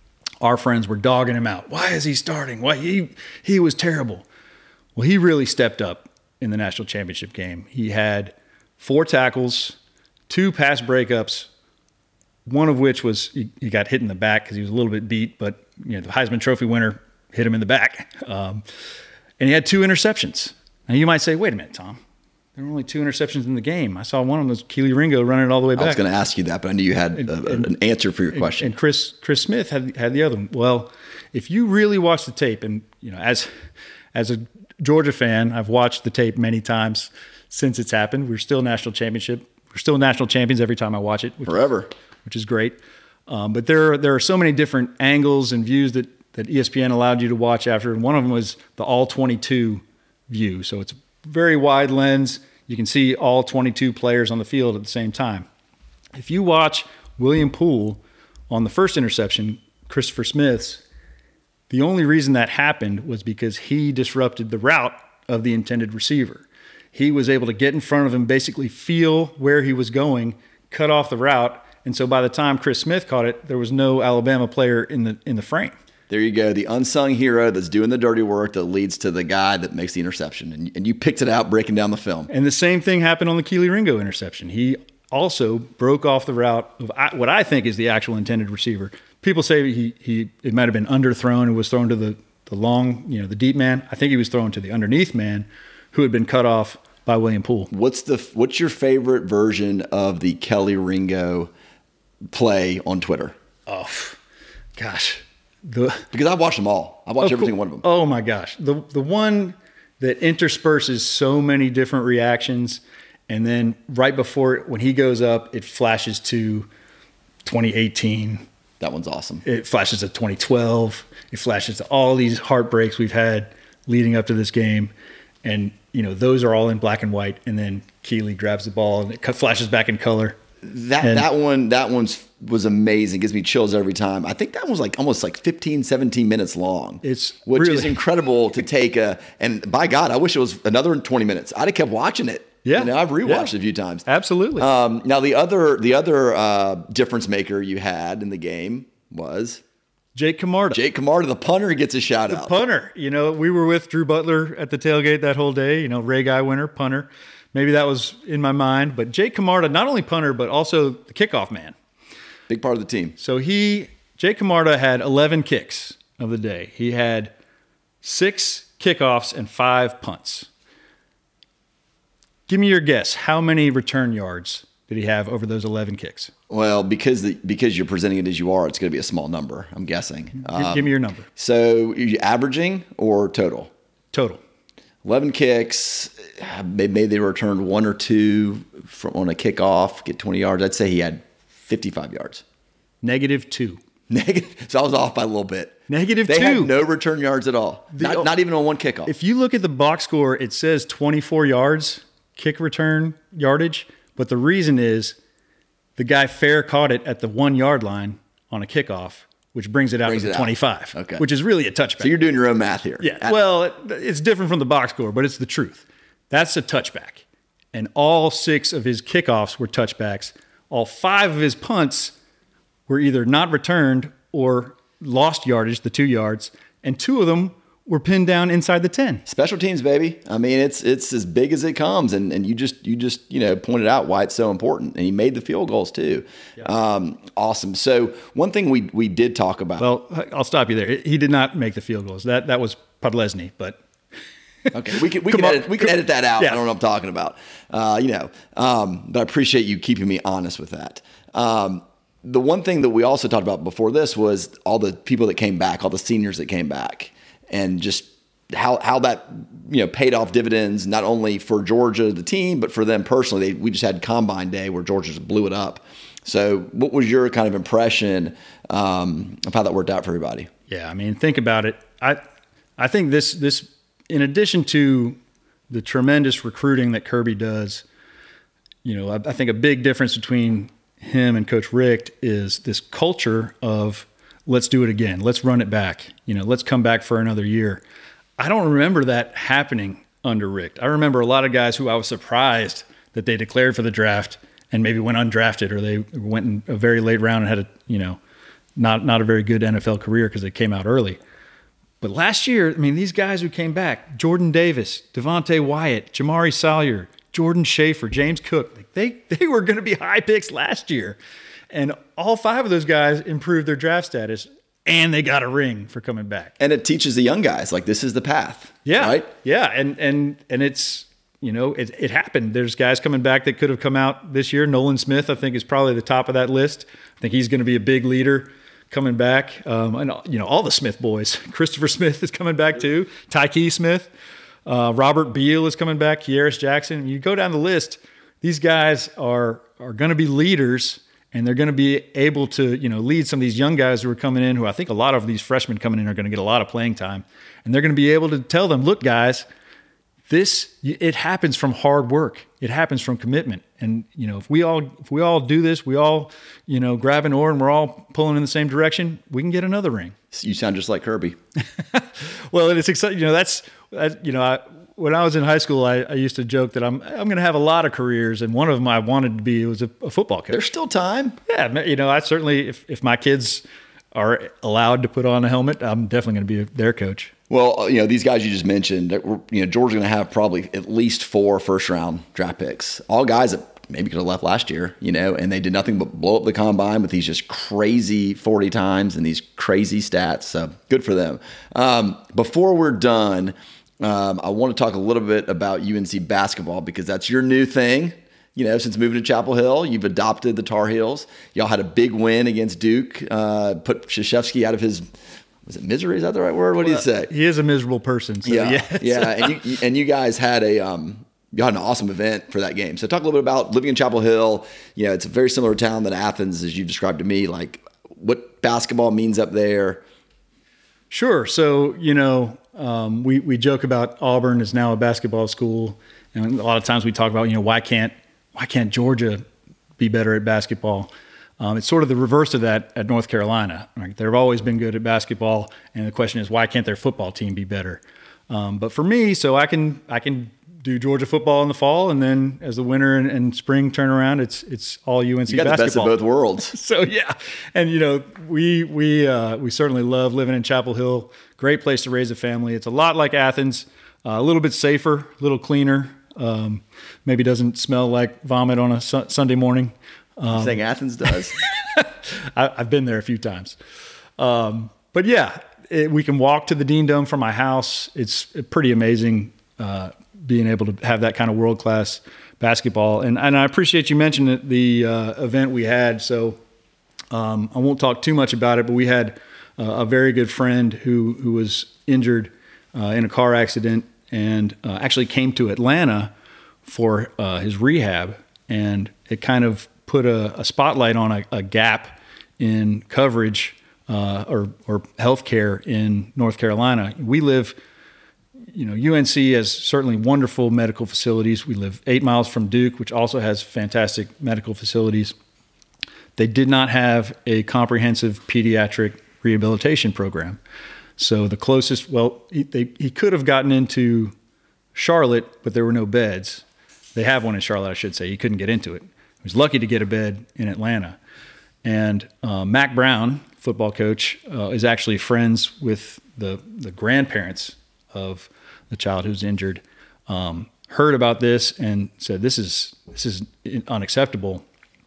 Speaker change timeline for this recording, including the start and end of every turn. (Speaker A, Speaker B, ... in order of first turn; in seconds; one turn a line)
Speaker A: 0.4-4.2
Speaker A: 5.0-9.8
Speaker A: 10.3-11.5
Speaker A: 12.5-18.6
Speaker A: 19.4-22.0
Speaker A: 22.6-26.0
Speaker B: 25.8-28.7
Speaker A: 27.1-27.7
Speaker A: 28.3-33.5
Speaker A: 34.1-41.7
Speaker B: 41.5-41.9
Speaker A: 42.2-42.8
Speaker A: 43.3-55.5
Speaker A: 56.1-60.8
Speaker A: 61.7-75.7
Speaker B: 76.1-82.3
Speaker A: 82.3-97.7
Speaker B: 97.7-101.5
Speaker B: 102.3-103.3
Speaker A: 103.7-104.2
Speaker A: 104.8-106.0
Speaker B: 106.1-107.8
Speaker A: 107.2-116.7
Speaker A: 117.5-118.4
Speaker B: 118.8-119.4
Speaker A: 119.4-124.9
Speaker A: 125.4-130.4
Speaker B: 130.6-144.1
Speaker A: 131.0-131.3
Speaker A: 137.0-138.0
Speaker A: 142.7-143.5
Speaker A: 144.1-144.7
Speaker B: 144.6-149.6
Speaker A: 150.2-150.8
Speaker B: 150.7-152.5
Speaker A: 152.3-161.8
Speaker B: 162.5-163.2
Speaker A: 163.2-167.3
Speaker A: 168.0-170.5
Speaker A: 172.5-176.3
Speaker B: 176.5-183.7
Speaker A: 180.4-181.3
Speaker A: 184.1-184.4
Speaker B: 185.1-192.4
Speaker A: 193.0-193.8
Speaker B: 194.1-199.1
Speaker A: 195.9-196.7
Speaker A: 197.9-198.3
Speaker A: 199.1-205.2
Speaker A: 206.0-212.2
Speaker B: 210.1-211.2
Speaker B: 212.0-213.3
Speaker A: 213.0-222.2
Speaker A: 222.9-229.2
Speaker B: 229.3-239.8
Speaker A: 239.8-243.8
Speaker B: 244.7-270.5
Speaker A: 245.2-246.6
Speaker A: 270.7-272.2
Speaker A: 272.8-275.2
Speaker A: 275.7-277.8
Speaker A: 278.8-287.8
Speaker A: 288.4-298.2
Speaker A: 298.8-301.2
Speaker A: 302.0-311.2
Speaker A: 311.7-316.6
Speaker B: 316.6-319.3
Speaker A: 318.9-334.1
Speaker A: 334.7-349.4
Speaker A: 350.3-360.1
Speaker B: 360.3-361.4
Speaker A: 361.8-370.7
Speaker B: 370.5-371.4
Speaker A: 371.5-377.3
Speaker B: 377.5-405.0
Speaker B: 405.7-407.3
Speaker A: 406.8-409.6
Speaker B: 408.4-420.0
Speaker A: 421.1-429.4
Speaker A: 430.0-463.8
Speaker B: 445.5-446.7
Speaker B: 460.5-461.6
Speaker A: 464.4-476.6
Speaker A: 477.3-486.3
Speaker A: 486.9-497.8
Speaker A: 498.7-505.3
Speaker A: 506.4-510.6
Speaker A: 511.2-514.3
Speaker A: 515.0-516.6
Speaker A: 517.1-521.2
Speaker A: 521.8-534.6